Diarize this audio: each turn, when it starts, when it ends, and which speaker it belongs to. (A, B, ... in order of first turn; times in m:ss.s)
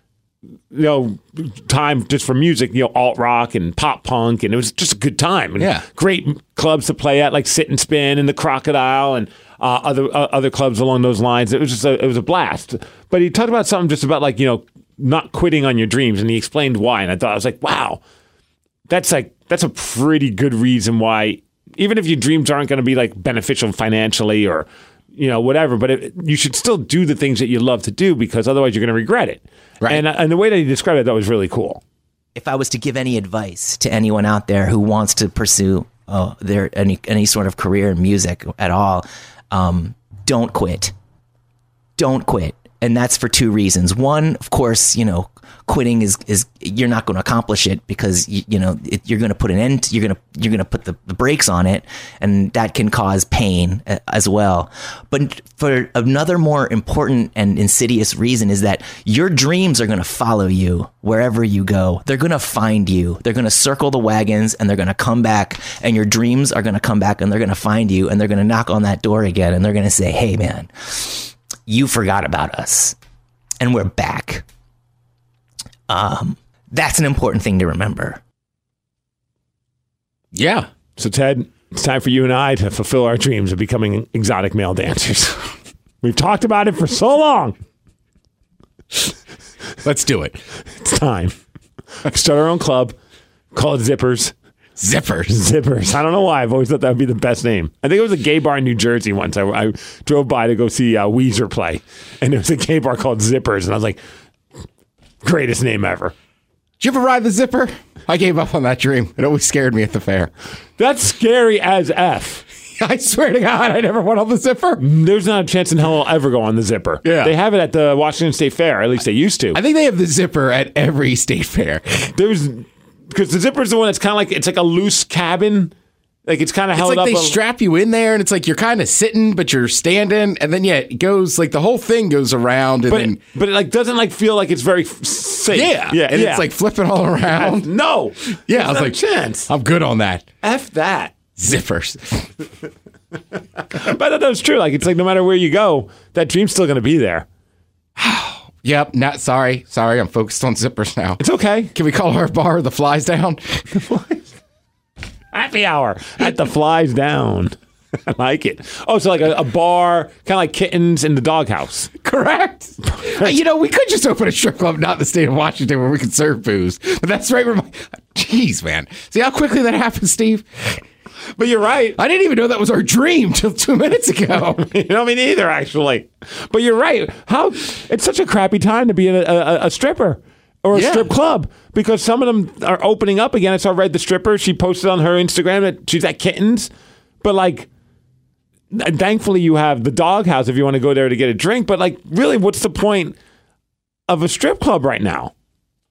0:00.7-0:18.0 A
0:05.6-0:05.8 B
0:18.9-0:31.8 A
0:32.3-0:40.9 C
0:42.0-1:13.0 C
1:13.6-1:14.4 C
1:15.9-1:18.2 C
1:20.3-1:20.7 B
1:21.0-1:25.5 A
1:26.0-1:27.6 A
1:29.8-1:30.4 B
1:30.8-1:31.3 A
1:32.0-1:32.9 A
1:33.5-1:34.3 A
1:34.8-1:35.4 B
1:35.3-1:44.0 A
1:45.2-1:46.1 A
1:46.8-1:50.3 B
1:50.8-1:52.4 A
1:52.8-1:54.8 B
1:54.8-1:59.6 A
1:57.0-1:57.3 B
1:59.5-2:02.1 B
2:02.1-2:05.7 A
2:06.2-2:07.4 A
2:06.8-2:13.2 B
2:12.9-2:16.4 A
2:15.5-2:17.7 B
2:17.3-2:19.5 A
2:18.5-2:19.0 B
2:19.5-2:20.3 B
2:20.4-2:21.2 A
2:21.4-2:22.3 B
2:23.7-2:27.2 A
2:28.0-2:31.2 B
2:31.2-2:31.7 A
2:31.7-2:33.6 B
2:33.7-2:34.2 A
2:35.3-2:37.5 A
2:38.0-2:41.9 A
2:42.0-2:50.8 B
2:43.0-2:43.3 A
2:51.4-2:52.0 A
2:52.0-2:54.6 B
2:54.5-3:06.7 A
3:00.7-3:01.1 B
3:07.2-3:07.7 A
3:08.7-3:13.1 A
3:14.1-3:15.3 A